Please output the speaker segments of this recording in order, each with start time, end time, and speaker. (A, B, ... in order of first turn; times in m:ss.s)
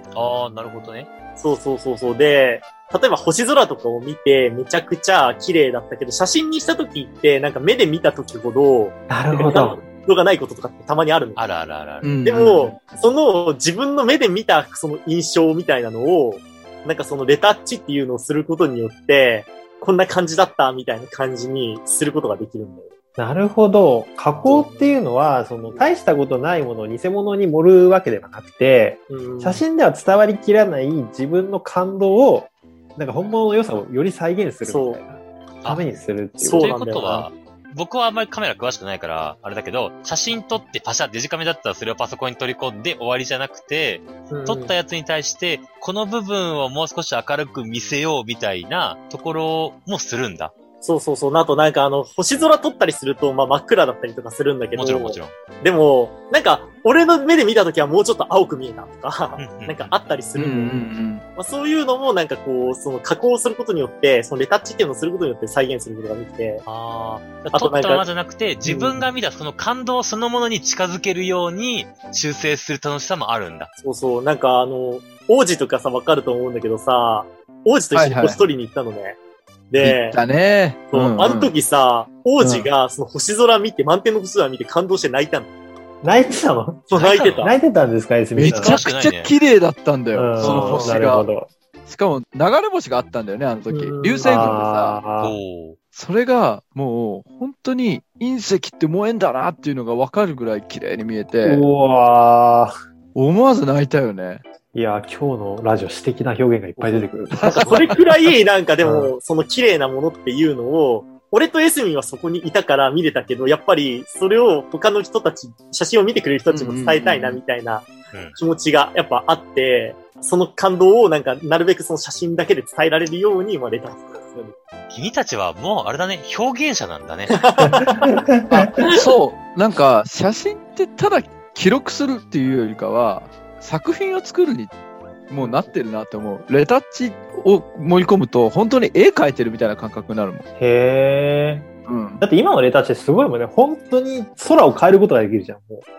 0:00.1-0:01.1 A
0:01.4-0:11.4 B
0:09.1-0:09.8 C
0:11.4-0:12.1 A
0:12.0-0:12.7 D
0:12.2-0:22.9 B
0:23.2-0:37.0 C
0:24.4-0:25.0 B
0:29.1-0:29.6 B
0:34.6-0:35.0 B
0:36.4-0:37.2 B
0:36.5-0:50.5 A
0:44.3-0:44.7 B
0:50.8-1:00.8 B
0:54.8-0:55.3 A
0:59.4-0:59.9 A
1:00.4-1:01.2 D
1:01.4-1:06.6 B
1:06.6-1:13.7 A
1:07.4-1:08.1 B
1:13.8-1:19.2 B
1:17.9-1:18.4 D
1:19.7-1:20.2 B
1:19.8-1:21.5 D
1:20.9-1:25.5 B
1:22.4-1:22.7 D
1:26.0-1:28.7 C
1:26.9-1:27.5 B
1:26.9-1:27.5 A
1:28.4-1:31.3 D
1:28.4-1:29.3 A
1:30.1-1:31.5 C
1:30.4-1:31.0 B
1:31.8-1:35.0 D
1:33.7-1:34.6 B
1:34.2-1:35.3 C
1:35.2-1:35.8 A
1:35.9-1:41.6 D
1:41.4-1:42.7 C
1:43.1-1:44.4 D
1:44.7-1:47.7 C
1:47.3-1:48.0 D
1:47.4-2:04.5 B
1:48.8-1:49.1 C
1:56.5-1:57.4 D
1:58.1-1:58.4 A
2:04.9-2:07.4 A
2:07.3-2:08.2 B
2:07.6-2:08.7 C
2:08.5-2:14.7 D
2:15.3-2:20.4 D
2:20.6-2:21.7 C
2:21.8-2:22.2 D
2:22.2-2:25.8 C